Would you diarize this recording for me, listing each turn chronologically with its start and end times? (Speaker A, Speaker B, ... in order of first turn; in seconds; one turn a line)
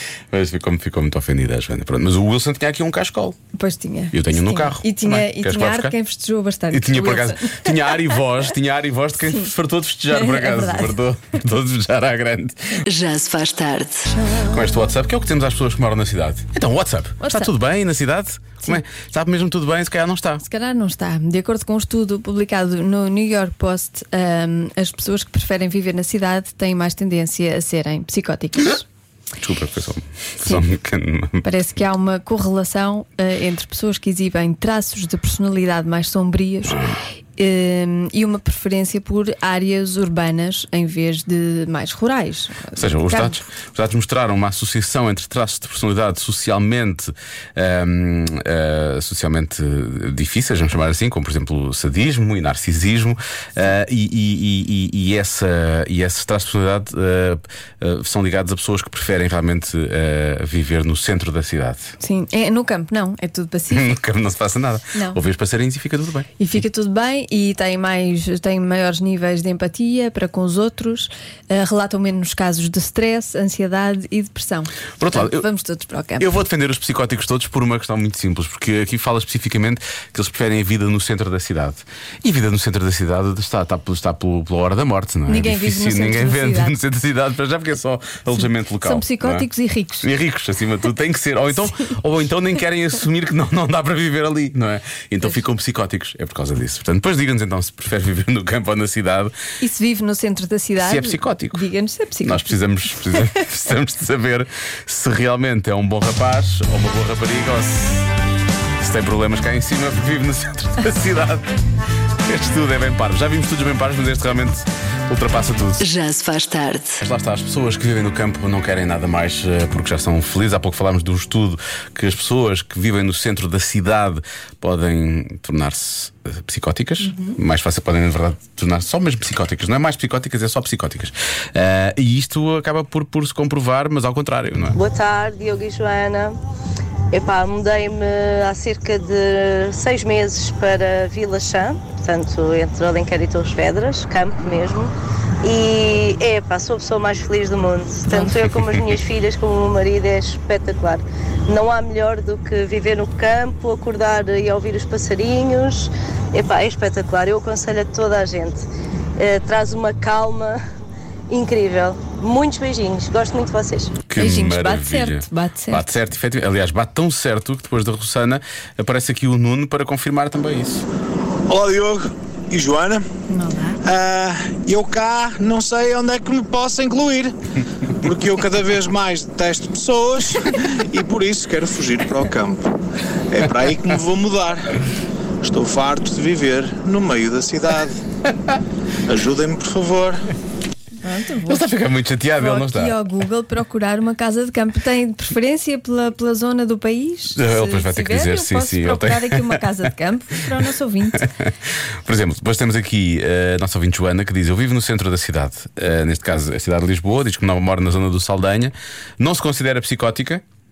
Speaker A: 0.3-3.4
Speaker B: 3.5-8.2
Speaker A: 4.1-6.0
Speaker A: 6.7-12.8
Speaker B: 10.1-11.0
Speaker C: 12.8-14.1
Speaker B: 14.2-14.5
Speaker A: 14.4-20.4
Speaker B: 17.2-17.5
Speaker B: 20.4-28.9
Speaker A: 29.4-31.4
Speaker B: 31.4-36.8
Speaker B: 37.4-43.4
Speaker A: 42.7-62.0
Speaker B: 62.0-64.0
Speaker A: 63.7-66.3
Speaker B: 64.9-65.2
Speaker B: 66.4-76.3
Speaker A: 75.0-75.5
Speaker A: 76.2-89.5
Speaker B: 85.3-86.8
Speaker B: 88.4-90.1
Speaker A: 90.0-99.3
Speaker B: 99.6-103.4
Speaker A: 100.8-101.7
Speaker A: 102.2-108.1
Speaker A: 108.8-111.5
Speaker A: 112.2-115.8
Speaker C: 115.8-117.0
Speaker A: 117.0-134.8
Speaker B: 127.0-127.4
Speaker D: 134.7-136.4
Speaker D: 137.1-160.6
Speaker B: 148.1-148.4
Speaker D: 161.3-164.0
Speaker A: 164.1-170.8
Speaker B: 164.2-165.9
Speaker E: 171.5-173.1
Speaker B: 173.3-173.8
Speaker E: 173.8-177.3
Speaker E: 178.0-182.6
Speaker E: 183.3-184.7
Speaker E: 185.4-188.0
Speaker E: 189.1-190.2
Speaker B: 191.0-191.7
Speaker A: 191.5-193.0
Speaker B: 192.4-201.3
Speaker A: 197.3-199.9
Speaker A: 201.2-210.4